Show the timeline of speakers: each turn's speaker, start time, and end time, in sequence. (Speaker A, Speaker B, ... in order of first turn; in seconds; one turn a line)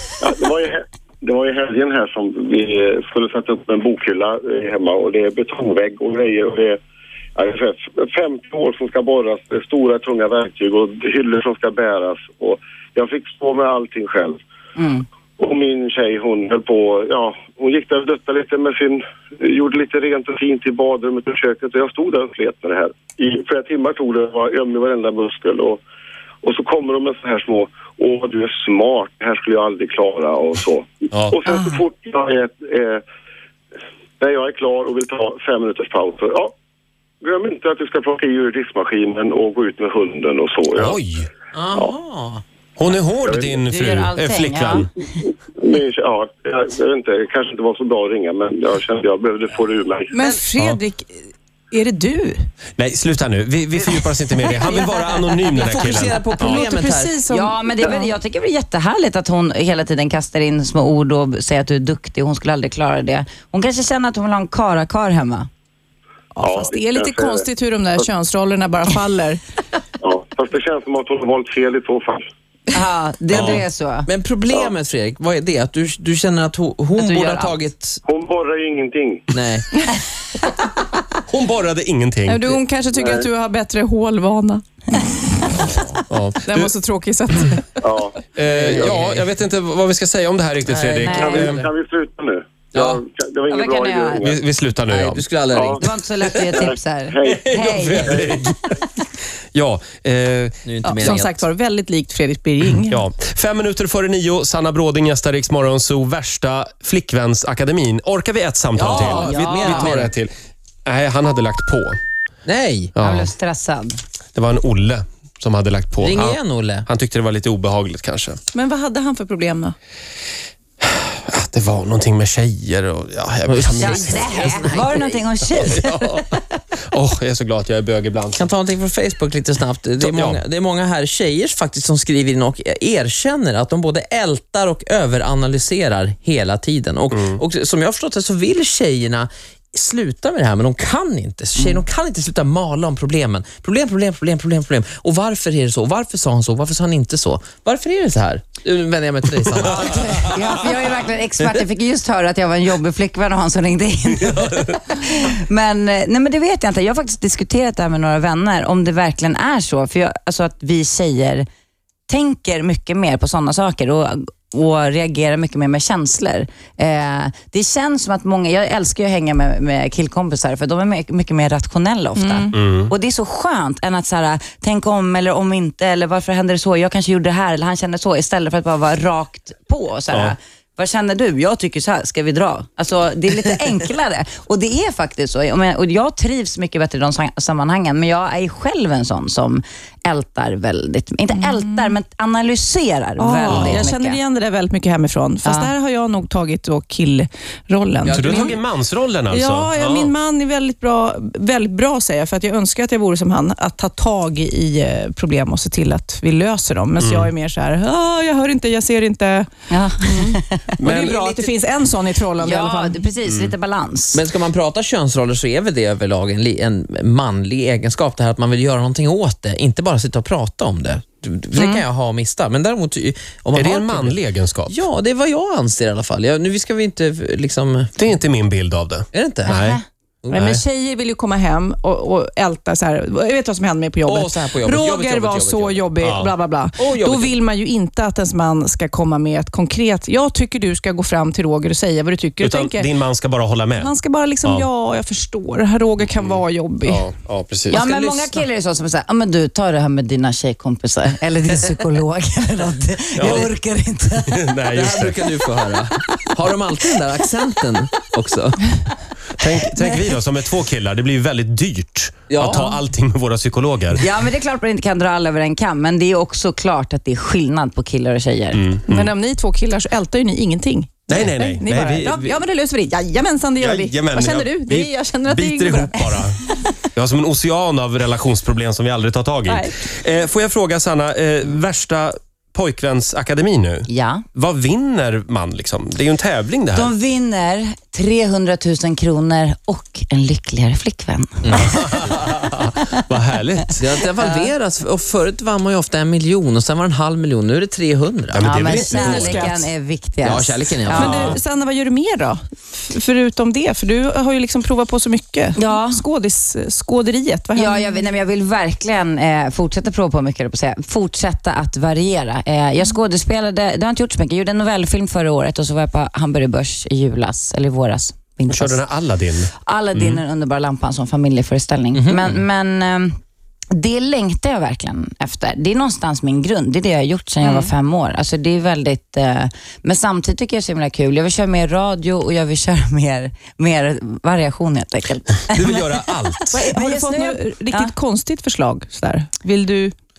Speaker A: 0.2-6.8
Speaker A: 7.3-14.4
Speaker B: 14.8-15.0
Speaker A: 15.4-25.8
Speaker A: 26.4-33.0
Speaker C: 31.5-31.8
Speaker A: 34.2-36.5
Speaker A: 37.2-41.0
Speaker D: 40.8-41.3
Speaker E: 41.5-42.4
Speaker D: 42.8-44.9
Speaker A: 43.2-43.6
Speaker B: 43.6-45.0
Speaker A: 45.5-50.2
Speaker C: 50.1-52.5
Speaker D: 52.8-56.7
Speaker E: 55.5-57.1
Speaker C: 56.4-58.1
Speaker B: 57.3-65.5
Speaker C: 66.3-69.4
Speaker A: 66.4-67.5
Speaker A: 70.0-72.2
Speaker B: 72.7-74.1
Speaker D: 73.3-73.6
Speaker E: 73.3-78.0
Speaker B: 77.0-77.5
Speaker A: 78.0-79.2
Speaker E: 79.3-79.7
Speaker D: 81.3-82.6
Speaker C: 82.2-84.6
Speaker A: 82.9-83.3
Speaker C: 85.2-85.6
Speaker D: 86.1-86.7
Speaker C: 86.4-87.8
Speaker A: 87.8-88.2
Speaker D: 88.3-91.6
Speaker E: 88.5-89.3
Speaker B: 88.5-89.0
Speaker E: 90.7-91.6
Speaker B: 91.0-91.6
Speaker A: 91.0-94.4
Speaker E: 92.7-93.0
Speaker B: 93.5-94.2
Speaker D: 94.2-95.2
Speaker E: 94.9-95.9
Speaker A: 95.5-95.8
Speaker B: 95.8-98.2
Speaker A: 96.4-98.4
Speaker D: 97.2-98.7
Speaker D: 99.5-101.2
Speaker E: 100.6-101.4
Speaker C: 100.8-103.0
Speaker D: 102.9-110.3
Speaker E: 108.7-110.1
Speaker B: 108.9-110.1
Speaker D: 110.8-112.0
Speaker E: 112.4-112.9
Speaker D: 112.9-113.3
Speaker B: 113.0-114.0
Speaker D: 114.3-118.4
Speaker E: 116.0-116.8
Speaker C: 118.5-119.7
Speaker D: 120.8-124.8
Speaker E: 123.5-125.1
Speaker B: 123.8-126.0
Speaker D: 125.5-126.4
Speaker D: 126.9-128.5
Speaker E: 128.4-150.6
Speaker D: 130.0-130.4
Speaker D: 137.1-137.4
Speaker B: 141.6-141.8
Speaker B: 149.6-161.4
Speaker B: 162.1-194.2
Speaker C: 172.2-172.5
Speaker D: 172.5-172.9
Speaker C: 193.2-198.6
Speaker D: 193.5-193.9
Speaker B: 195.4-195.7
Speaker E: 198.0-198.6
Speaker D: 198.1-200.1
Speaker C: 199.3-209.5
Speaker D: 207.0-207.3
Speaker B: 209.7-210.8
Speaker C: 210.0-213.0
Speaker D: 210.8-211.4
Speaker B: 212.4-214.2
Speaker D: 213.2-213.5
Speaker E: 214.1-224.2
Speaker D: 223.5-224.8
Speaker E: 224.7-228.0
Speaker D: 228.0-229.8
Speaker E: 229.1-229.6
Speaker B: 229.4-229.8
Speaker E: 230.2-230.6
Speaker C: 230.3-242.9
Speaker E: 234.1-235.9
Speaker D: 236.0-236.3
Speaker E: 236.8-237.3
Speaker D: 242.4-243.9
Speaker C: 243.8-247.1
Speaker D: 246.2-247.8
Speaker B: 247.7-254.4
Speaker C: 247.8-248.2
Speaker D: 253.2-253.5
Speaker E: 253.2-253.5
Speaker D: 254.3-255.2
Speaker E: 254.7-258.7
Speaker D: 259.4-264.0
Speaker E: 262.3-262.7
Speaker B: 264.0-268.7
Speaker D: 268.5-269.1
Speaker C: 268.9-276.0
Speaker D: 271.1-272.4
Speaker D: 273.6-276.4
Speaker D: 276.9-286.9
Speaker C: 279.4-279.8
Speaker B: 283.9-284.2
Speaker B: 286.7-292.0
Speaker E: 291.4-291.8
Speaker D: 291.7-293.8
Speaker E: 293.8-298.6
Speaker B: 294.2-294.5
Speaker D: 298.3-299.5
Speaker B: 298.4-301.2
Speaker C: 298.8-299.6
Speaker E: 300.2-301.4
Speaker C: 300.9-308.0
Speaker D: 301.1-301.4
Speaker B: 305.6-306.0
Speaker B: 307.5-318.9
Speaker D: 318.5-320.2
Speaker B: 319.6-323.1
Speaker E: 321.9-322.4
Speaker B: 323.7-337.9
Speaker C: 327.4-327.7
Speaker D: 335.5-336.6
Speaker C: 336.5-339.9